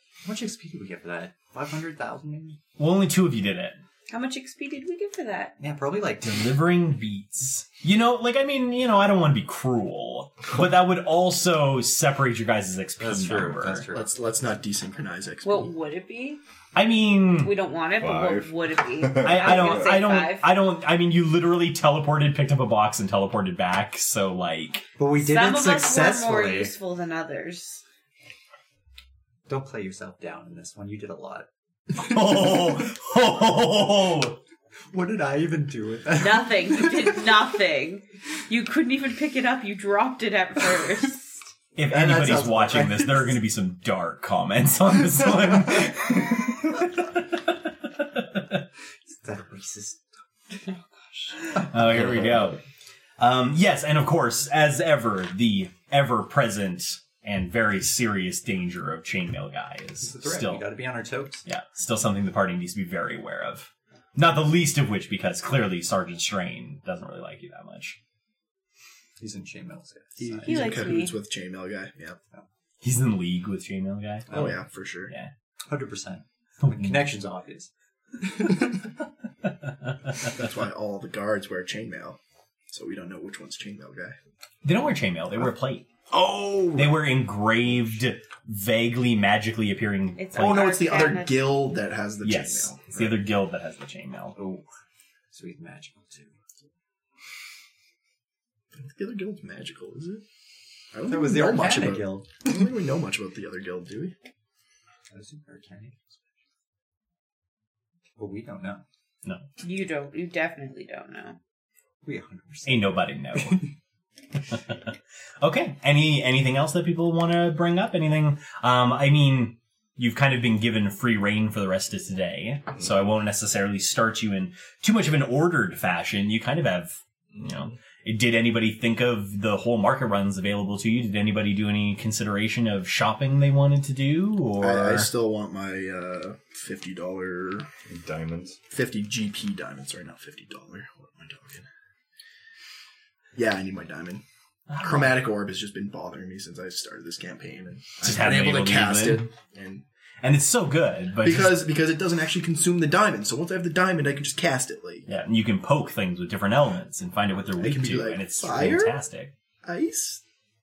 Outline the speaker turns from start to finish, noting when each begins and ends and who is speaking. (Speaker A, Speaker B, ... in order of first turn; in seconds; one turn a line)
Speaker A: 0.2-2.6
Speaker B: 2.8-3.8
Speaker C: 4.1-5.5
Speaker A: 5.6-6.5
Speaker B: 6.2-13.9
Speaker A: 13.0-14.1
Speaker D: 13.9-15.7
Speaker C: 15.4-16.4
Speaker B: 16.8-17.6
Speaker C: 17.4-20.5
Speaker E: 18.0-20.0
Speaker B: 19.2-24.9
Speaker A: 25.0-26.7
Speaker C: 25.2-27.8
Speaker A: 29.5-31.5
Speaker B: 32.0-34.4
Speaker A: 34.9-37.3
Speaker C: 36.2-41.4
Speaker B: 41.8-48.6
Speaker A: 41.9-43.4
Speaker A: 49.1-50.0
Speaker C: 50.6-51.4
Speaker B: 51.4-52.6
Speaker B: 53.2-60.7
Speaker A: 60.0-61.4
Speaker B: 61.5-68.0
Speaker A: 69.2-71.0
Speaker D: 70.2-72.2
Speaker C: 70.5-71.2
Speaker B: 72.8-74.6
Speaker D: 74.3-75.1
Speaker A: 75.7-77.7
Speaker B: 76.6-77.1
Speaker A: 78.2-78.8
Speaker B: 79.5-80.3
Speaker D: 80.3-82.2
Speaker D: 82.7-84.2
Speaker B: 84.6-85.9
Speaker D: 86.1-86.9
Speaker B: 86.8-90.7
Speaker C: 90.2-91.6
Speaker D: 90.3-93.2
Speaker B: 92.2-94.4
Speaker A: 94.4-94.7
Speaker A: 95.3-96.3
Speaker D: 98.7-100.2
Speaker D: 100.9-104.1
Speaker A: 101.1-102.5
Speaker A: 105.1-106.2
Speaker A: 108.2-108.8
Speaker C: 109.6-111.4
Speaker A: 112.1-113.7
Speaker B: 112.7-113.7
Speaker B: 114.5-135.1
Speaker D: 134.6-137.7
Speaker E: 137.9-138.6
Speaker D: 138.7-141.7
Speaker D: 143.3-144.2
Speaker B: 144.7-145.2
Speaker D: 144.8-149.8
Speaker B: 148.0-149.3
Speaker B: 150.2-151.6
Speaker D: 151.2-155.1
Speaker B: 155.1-159.3
Speaker D: 157.6-159.0
Speaker D: 159.6-160.2